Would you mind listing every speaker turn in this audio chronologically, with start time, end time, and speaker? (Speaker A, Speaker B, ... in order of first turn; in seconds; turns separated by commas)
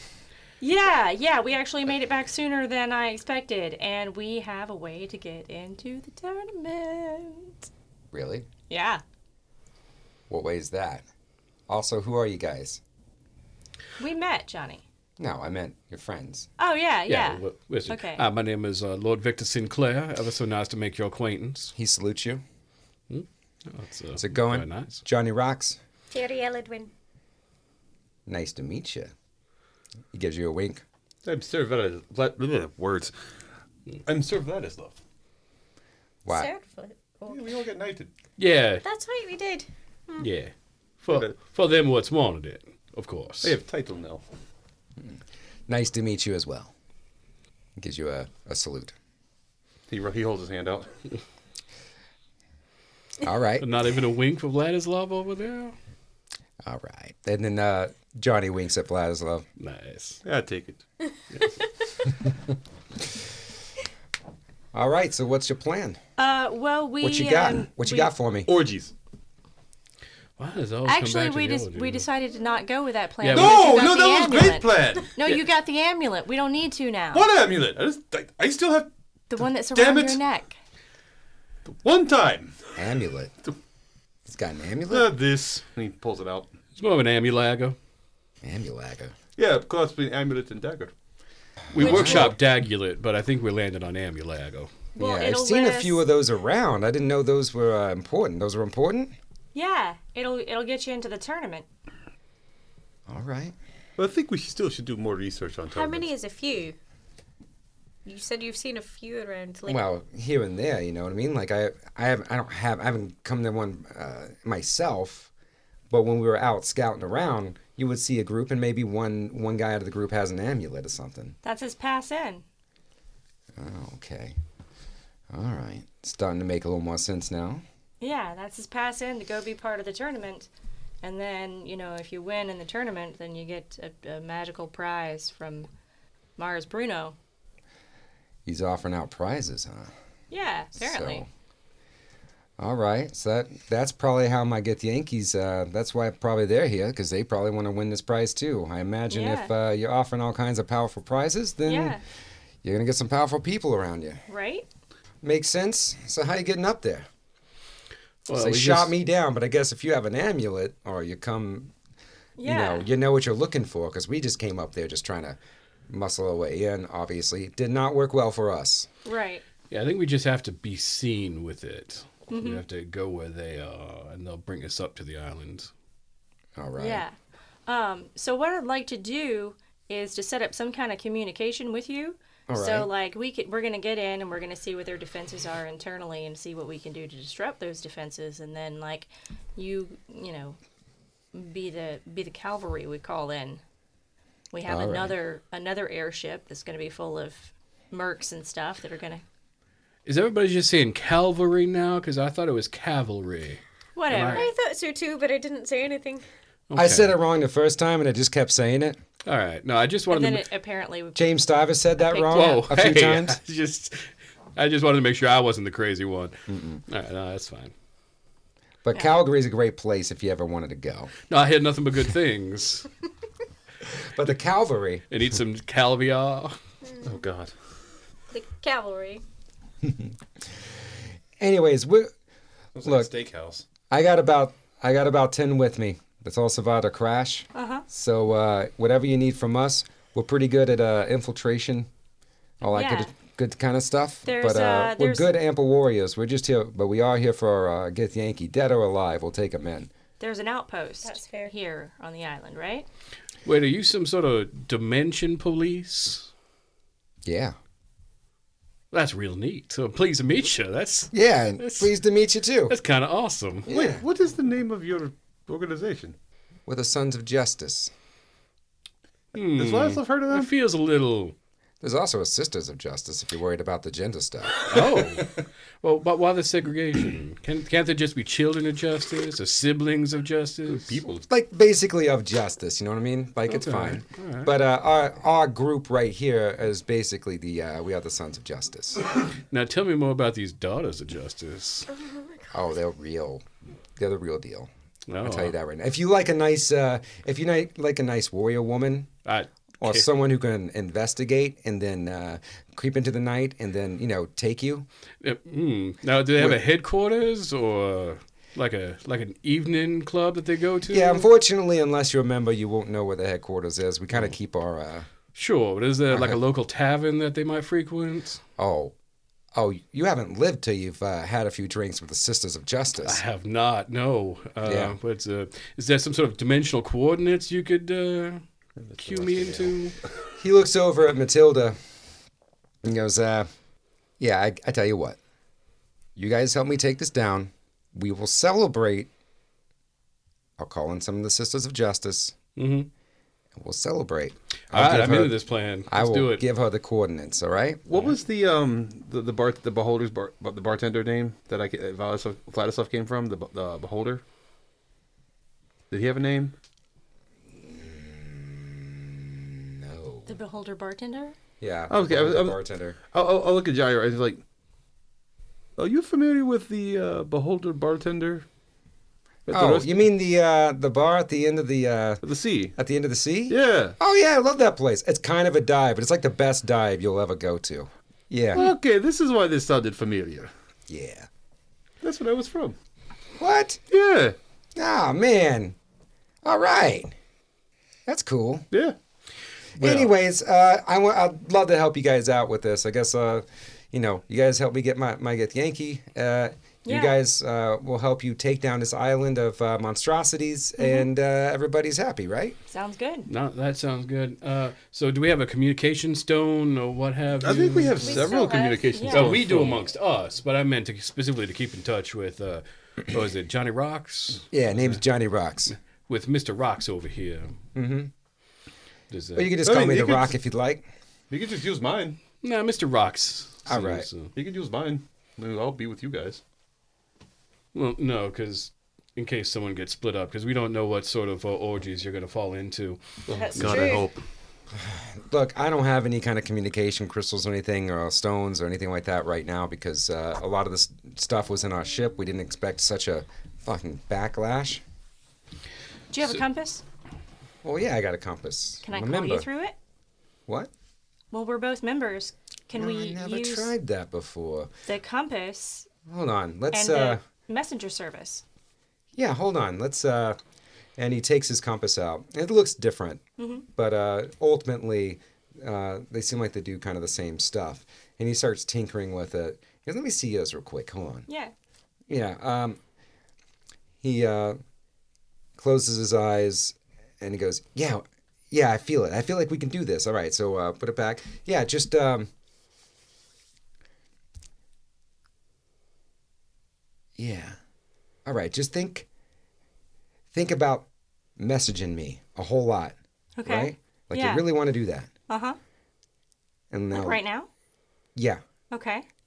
Speaker A: 0.6-7.7, Speaker B: 8.1-8.5, Speaker A: 8.7-9.0, Speaker B: 10.3-11.0, Speaker B: 11.7-12.8, Speaker A: 14.0-14.8, Speaker B: 15.2-16.5, Speaker A: 16.6-18.2, Speaker C: 17.1-21.7, Speaker B: 21.8-22.4, Speaker C: 23.1-25.0, Speaker B: 24.2-25.8, Speaker D: 26.1-26.9, Speaker B: 28.3-29.1, Speaker B: 30.1-30.8, Speaker E: 31.2-33.1, Speaker E: 34.1-35.0, Speaker B: 36.2-36.5, Speaker D: 36.3-37.6, Speaker E: 37.3-38.1, Speaker C: 38.4-38.9, Speaker D: 38.8-40.3, Speaker C: 40.2-40.5, Speaker C: 41.0-43.6, Speaker E: 41.1-41.4, Speaker E: 43.4-44.2, Speaker B: 45.0-46.7, Speaker B: 47.8-48.9, Speaker E: 49.9-50.9, Speaker B: 53.2-53.7, Speaker C: 53.6-55.8, Speaker B: 56.6-59.5, Speaker C: 59.6-60.2, Speaker E: 60.2-60.8, Speaker B: 64.7-66.0, Speaker A: 66.2-68.1, Speaker B: 67.0-68.5, Speaker E: 68.5-68.9, Speaker C: 70.4-72.0, Speaker A: 70.9-77.3, Speaker C: 73.2-73.8, Speaker E: 73.3-75.4, Speaker E: 77.1-78.9, Speaker A: 79.3-80.6, Speaker E: 79.7-80.2, Speaker E: 81.7-82.8, Speaker B: 82.8-83.3, Speaker B: 84.3-85.1, Speaker E: 84.9-86.5, Speaker C: 86.8-87.8, Speaker B: 88.4-89.2, Speaker E: 89.4-90.9, Speaker C: 91.7-94.7, Speaker B: 91.8-92.3, Speaker B: 95.0-99.2, Speaker A: 95.0-96.0, Speaker A: 99.5-101.7, Speaker B: 103.1-103.5, Speaker E: 104.0-106.1, Speaker D: 105.7-106.8, Speaker D: 108.0-109.8, Speaker B: 109.7-115.3, Speaker B: 115.9-121.4, Speaker A: 121.4-122.5, Speaker B: 123.6-124.4, Speaker B: 125.3-127.6, Speaker A: 128.0-130.5, Speaker A: 131.0-135.7, Speaker A: 136.4-137.2, Speaker B: 138.5-139.9, Speaker A: 140.3-141.2, Speaker B: 140.8-141.3, Speaker B: 142.6-152.0, Speaker A: 149.1-149.5, Speaker A: 151.7-152.0, Speaker B: 152.6-154.2, Speaker A: 154.3-154.7, Speaker B: 155.2-157.1, Speaker C: 158.3-158.9, Speaker B: 158.3-161.7, Speaker A: 162.4-162.9, Speaker B: 162.4-168.9, Speaker A: 169.1-169.4, Speaker C: 169.7-175.7, Speaker A: 172.3-172.6, Speaker B: 176.6-177.1, Speaker A: 176.8-177.2, Speaker A: 177.7-190.6, Speaker B: 182.5-182.9, Speaker A: 191.3-193.6, Speaker A: 194.5-199.2, Speaker B: 194.7-195.2, Speaker C: 200.1-204.5, Speaker A: 204.0-204.5, Speaker D: 204.3-206.2, Speaker C: 206.7-207.2, Speaker B: 206.7-209.0, Speaker C: 209.2-210.4, Speaker A: 210.1-212.7, Speaker B: 211.2-213.4, Speaker C: 212.3-217.7, Speaker B: 216.5-216.8, Speaker B: 218.8-221.1, Speaker C: 221.3-222.9, Speaker B: 223.9-225.1, Speaker C: 225.1-226.6, Speaker E: 227.0-227.5, Speaker D: 228.3-229.2, Speaker B: 231.4-232.1, Speaker E: 232.8-233.6, Speaker B: 232.8-233.1, Speaker B: 233.9-241.9, Speaker A: 237.6-237.9, Speaker B: 242.6-249.9, Speaker A: 242.6-243.1, Speaker A: 244.3-245.3, Speaker A: 250.2-252.9, Speaker D: 251.0-251.5, Speaker C: 253.4-256.3, Speaker B: 257.2-257.6, Speaker C: 258.9-261.9, Speaker B: 261.1-262.8, Speaker C: 262.7-263.7, Speaker B: 263.7-264.0, Speaker E: 263.7-266.2, Speaker B: 266.7-267.9, Speaker C: 269.3-271.4, Speaker E: 269.6-270.5, Speaker B: 271.8-274.6, Speaker C: 274.7-281.0, Speaker E: 280.7-281.3, Speaker B: 281.3-289.0, Speaker C: 283.5-284.5, Speaker C: 289.5-291.9, Speaker B: 292.5-293.4, Speaker B: 294.0-294.7, Speaker C: 295.1-295.6, Speaker B: 295.2-299.1, Speaker C: 299.2-300.2, Speaker B: 299.8-304.9, Speaker C: 305.2-311.3, Speaker B: 306.4-306.6, Speaker B: 310.9-315.1, Speaker C: 315.3-318.4, Speaker B: 316.1-316.4, Speaker B: 318.6-318.9, Speaker B: 319.5-323.2, Speaker C: 323.0-328.4, Speaker B: 324.6-324.9, Speaker E: 328.8-329.8, Speaker C: 329.0-330.0, Speaker B: 330.4-331.8, Speaker B: 332.8-333.5, Speaker B: 334.2-335.2, Speaker B: 336.2-339.1, Speaker B: 340.6-342.4, Speaker C: 342.6-342.9, Speaker B: 343.6-347.8, Speaker C: 344.7-346.4, Speaker E: 347.9-354.2, Speaker E: 355.9-356.5, Speaker B: 357.5-360.4, Speaker A: 360.3-361.4, Speaker B: 361.6-363.0, Speaker E: 361.9-362.6, Speaker E: 363.1-364.4, Speaker E: 365.8-368.5, Speaker E: 369.5-370.0, Speaker B: 369.5-372.2, Speaker E: 372.2-372.7, Speaker B: 372.8-378.7, Speaker E: 373.5-373.9, Speaker E: 378.5-380.5, Speaker B: 380.9-381.3, Speaker E: 382.0-382.8, Speaker B: 383.4-383.8, Speaker E: 383.9-384.4, Speaker B: 384.8-385.8, Speaker B: 386.4-387.1, Speaker B: 388.1-388.7, Speaker E: 388.7-389.0, Speaker E: 389.8-390.1, Speaker B: 389.8-402.6, Speaker A: 396.9-397.2, Speaker A: 400.8-401.1, Speaker A: 402.7-403.3, Speaker C: 403.3-408.3, Speaker E: 407.4-409.8, Speaker D: 408.0-409.1, Speaker A: 408.9-409.4, Speaker C: 409.1-415.0, Speaker B: 414.5-415.7, Speaker C: 415.7-417.6, Speaker B: 417.8-418.1, Speaker C: 419.1-419.5, Speaker B: 419.4-420.9, Speaker E: 419.6-420.3, Speaker E: 421.3-422.2, Speaker C: 422.4-424.3, Speaker B: 423.7-424.1, Speaker E: 424.4-426.4, Speaker C: 427.7-433.0, Speaker E: 433.3-434.2, Speaker D: 433.4-434.0, Speaker C: 433.5-434.0, Speaker B: 434.7-444.8, Speaker A: 446.1-446.8, Speaker B: 447.6-449.5, Speaker A: 448.8-449.8, Speaker A: 451.3-453.7, Speaker B: 452.7-454.7, Speaker A: 454.9-455.9, Speaker B: 456.1-457.2, Speaker A: 456.7-458.4, Speaker B: 459.1-460.4, Speaker B: 461.0-463.2, Speaker A: 463.4-463.7, Speaker B: 463.8-471.3, Speaker A: 471.3-471.5, Speaker B: 472.1-472.8, Speaker B: 474.0-474.6, Speaker B: 475.6-482.3, Speaker B: 487.2-487.6, Speaker B: 488.3-489.1, Speaker B: 490.3-490.9, Speaker B: 491.4-495.1, Speaker A: 493.4-494.5, Speaker A: 495.3-495.6, Speaker B: 496.7-497.2, Speaker A: 496.9-497.5, Speaker B: 498.1-498.4, Speaker A: 498.7-499.1